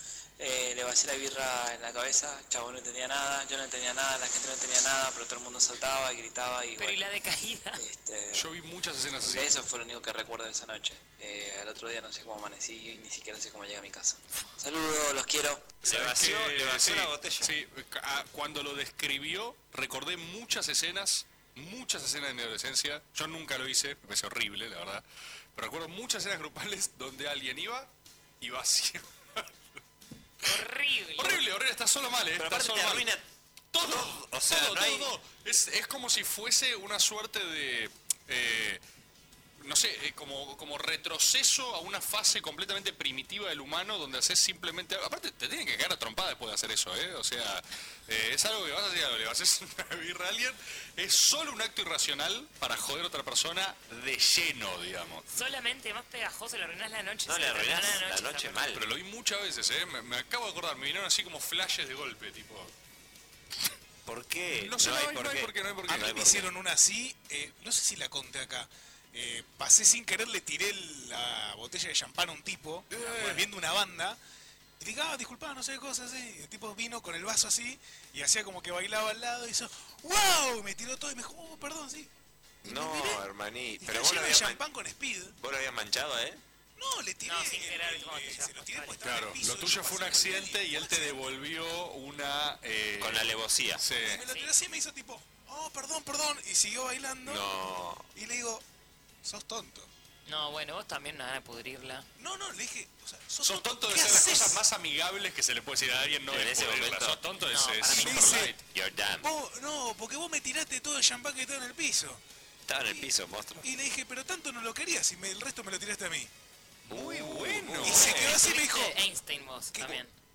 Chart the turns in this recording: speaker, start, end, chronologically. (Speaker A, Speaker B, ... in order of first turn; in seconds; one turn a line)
Speaker A: 0.4-7.0
Speaker B: 6.8-7.8
Speaker A: 7.7-8.5
Speaker C: 8.3-9.6
Speaker A: 9.2-15.8
Speaker D: 15.8-17.5
Speaker C: 15.8-25.0
Speaker C: 25.5-27.9
Speaker C: 28.4-29.5
Speaker B: 30.4-31.4
Speaker C: 31.2-33.1
Speaker D: 32.4-33.2
Speaker C: 33.7-38.8
Speaker D: 33.8-35.1
Speaker C: 39.6-55.2
Speaker B: 55.3-58.6
Speaker D: 57.2-58.8
Speaker C: 58.7-62.7
Speaker D: 64.0-66.5
Speaker C: 64.5-66.3
Speaker E: 65.9-74.2
Speaker C: 72.9-73.5
Speaker E: 74.8-82.1
Speaker D: 82.6-84.6
Speaker E: 82.6-83.2
Speaker E: 83.8-85.3
Speaker D: 85.4-86.4
Speaker E: 86.8-91.2
Speaker B: 87.2-89.0
Speaker C: 89.0-94.2
Speaker D: 93.0-93.8
Speaker E: 94.0-97.4
Speaker D: 97.2-98.1
Speaker E: 98.1-98.6
Speaker E: 99.2-99.9
Speaker B: 100.3-102.1
Speaker E: 102.2-104.6
Speaker C: 103.4-108.6
Speaker D: 106.3-107.2
Speaker B: 107.5-108.0
Speaker D: 107.8-109.3
Speaker E: 107.9-108.6
Speaker E: 109.2-112.2
Speaker D: 112.7-113.7
Speaker E: 113.6-116.3
Speaker D: 116.9-118.4
Speaker C: 116.9-118.3
Speaker E: 117.8-119.0
Speaker B: 118.0-120.1
Speaker E: 119.7-120.0